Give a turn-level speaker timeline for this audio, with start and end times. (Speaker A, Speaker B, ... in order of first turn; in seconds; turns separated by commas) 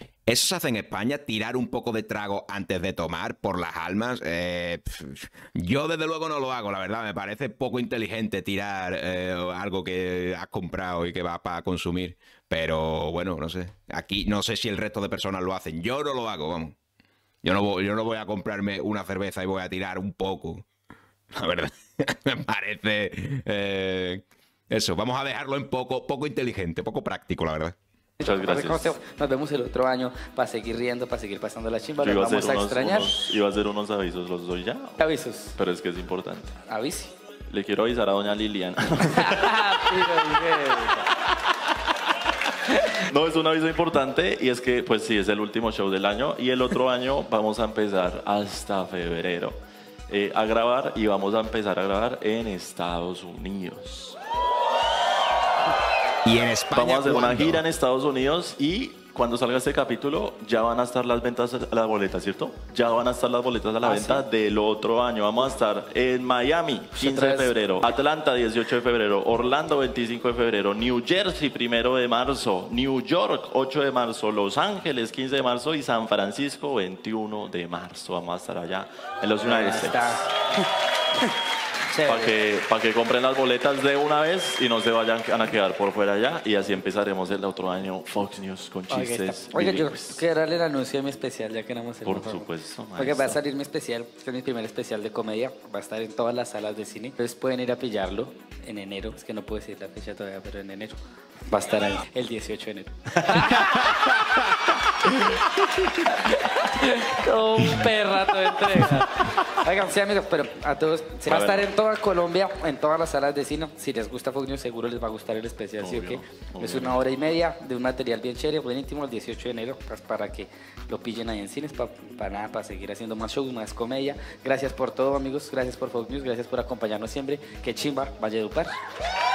Speaker A: 0.3-16.8, Speaker A: 17.4-20.7, Speaker A: 21.3-27.8, Speaker B: 28.2-33.4, Speaker C: 28.2-28.9, Speaker C: 32.0-36.6, Speaker B: 35.0-35.5, Speaker B: 36.7-37.1, Speaker C: 37.5-39.8, Speaker B: 39.0-41.1, Speaker B: 42.7-43.0, Speaker C: 42.9-49.6, Speaker C: 50.1-54.2, Speaker A: 56.2-57.6, Speaker C: 56.7-80.2, Speaker B: 63.8-64.2, Speaker B: 67.0-67.5, Speaker B: 79.4-80.7, Speaker B: 81.9-82.3, Speaker C: 82.0-90.2, Speaker B: 88.9-92.5, Speaker C: 92.0-93.4, Speaker B: 93.0-101.0, Speaker B: 101.5-104.2, Speaker B: 106.1-128.7, Speaker C: 111.3-111.7, Speaker C: 115.8-117.2